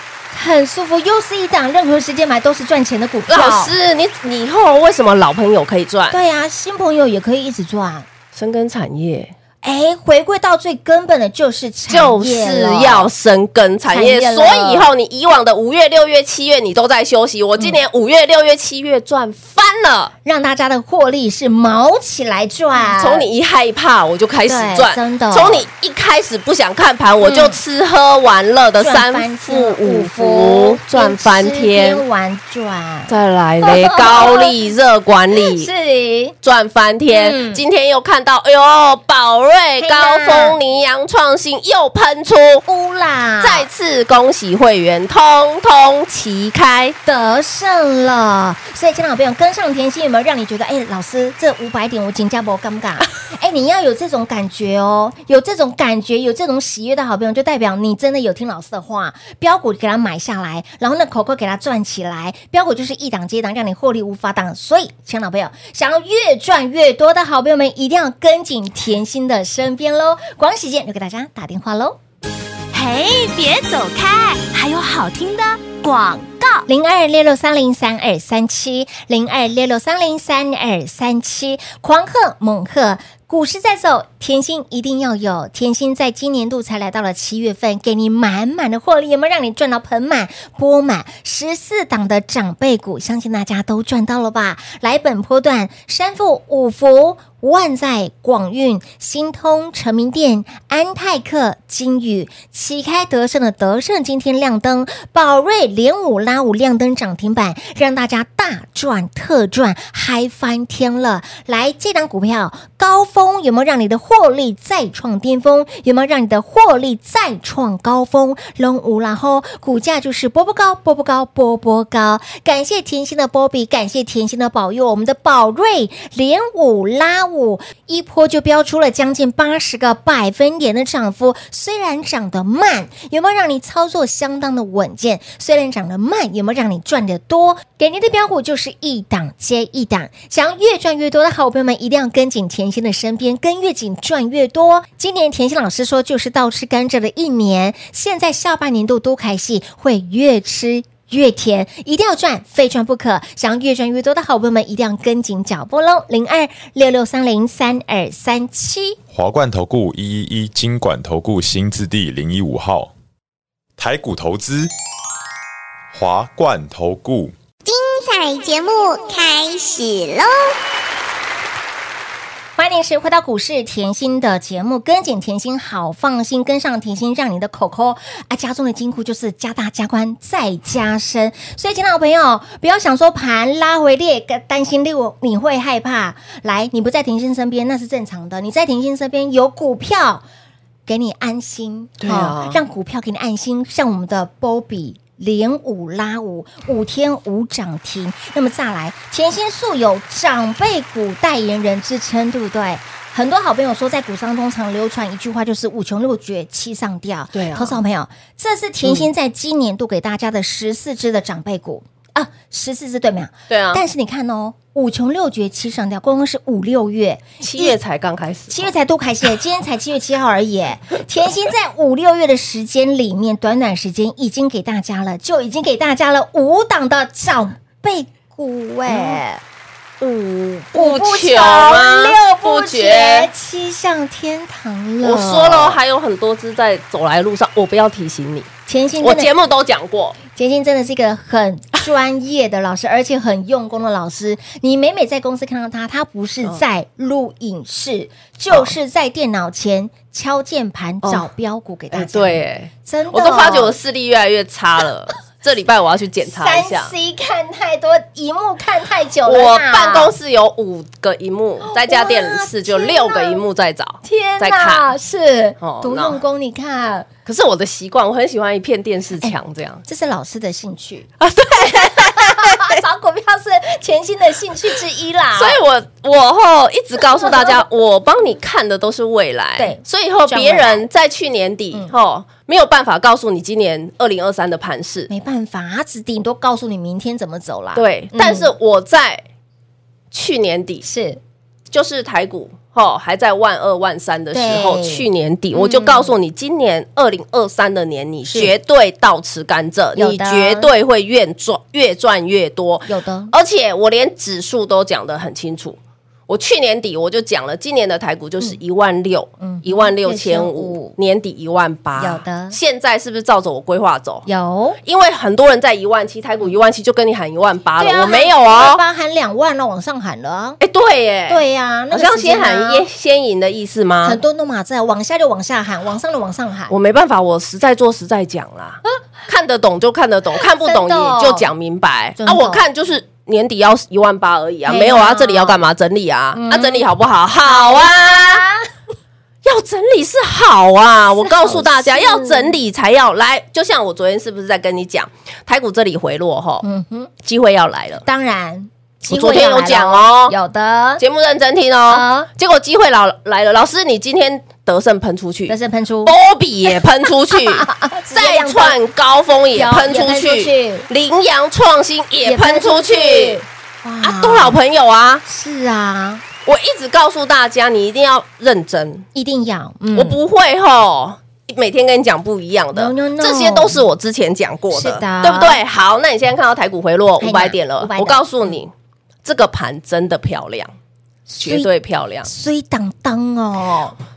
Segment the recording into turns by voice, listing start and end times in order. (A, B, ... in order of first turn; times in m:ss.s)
0:00.3-0:03.7 A
0:03.3-0:06.2 B
0:06.1-0:08.1 A
0:08.4-0:09.3 B
0:09.6-0:13.1 A
0:11.9-0:20.1 B
0:13.9-0:14.9 A
0:20.2-0:23.3 A
0:22.8-0:32.0 B
0:24.5-0:25.6 A
0:27.2-0:27.6 A
0:28.8-0:33.1 A
0:33.1-0:35.7 B
0:33.6-0:34.5 A
0:35.4-0:36.4 A
0:36.4-0:42.6 B
0:37.1-0:37.6 A
0:39.8-0:40.6 A
0:42.7-0:43.7 A
0:43.4-0:47.0 B
0:47.1-1:12.0 A
1:12.7-1:16.6 C
1:16.7-2:39.0 A
2:39.1-2:42.9 D
2:43.8-2:44.7 D
2:45.9-2:47.3 D
2:47.6-2:50.3 E
2:52.6-3:10.2 A
3:10.9-3:37.8 A
3:12.0-3:12.6 B
3:27.3-3:27.8 B
3:33.5-3:33.8 B
3:37.4-3:38.7 B
3:38.5-3:49.4 A
3:48.9-3:49.2 B
3:50.0-3:53.3 B
3:50.7-3:55.8 A
3:55.0-3:58.5 B
3:58.7-3:59.3 A
3:59.0-4:00.2 B
4:00.3-4:13.7 A
4:11.9-4:16.9 B
4:16.2-4:20.1 A
4:19.2-4:24.9 B
4:21.6-4:23.4 A
4:24.0-4:27.1 A
4:25.6-4:26.2 B
4:27.2-4:29.8 B
4:29.9-4:31.1 A
4:31.2-4:32.8 B
4:31.6-4:35.6 A
4:35.4-4:45.1 B
4:37.2-4:37.5 A
4:39.6-4:40.8 A
4:45.1-4:48.5 A
4:47.8-4:49.2 B
4:50.1-4:50.8 B
4:50.8-4:51.2 A
4:51.7-5:14.3 B
4:54.3-4:56.1 A
5:00.0-5:00.7 A
5:02.9-5:03.3 A
5:09.4-5:10.9 A
5:12.0-5:12.6 A
5:14.3-5:14.8 A
5:14.8-5:18.8 B
5:17.8-5:20.6 A
5:20.6-5:24.2 B
5:21.3-5:22.8 A
5:24.0-5:26.7 A
5:26.7-5:38.4 B
5:30.6-5:31.4 A
5:32.2-5:32.6 A
5:34.7-5:35.6 A
5:36.4-5:36.8 A
5:37.4-5:38.7 A
5:39.4-5:46.6 B
5:41.2-5:42.6 A
5:46.6-5:47.1 A
5:47.2-5:48.0 B
5:48.0-5:51.0 A
5:49.1-5:50.4 B
5:51.0-6:03.4 B
5:51.9-5:52.3 A
5:55.5-5:56.1 A
5:57.3-5:58.8 A
5:59.5-6:00.9 A
6:02.2-6:04.6 A
6:04.0-6:05.2 B
6:05.3-6:06.2 A
6:06.4-6:09.1 B
6:09.1-6:10.2 A
6:09.9-6:18.7 B
6:12.7-6:13.8 A
6:14.7-6:15.6 A
6:17.2-6:18.5 A
6:19.2-6:20.7 B
6:21.3-6:21.7 A
6:21.4-6:22.3 B
6:22.2-6:24.0 A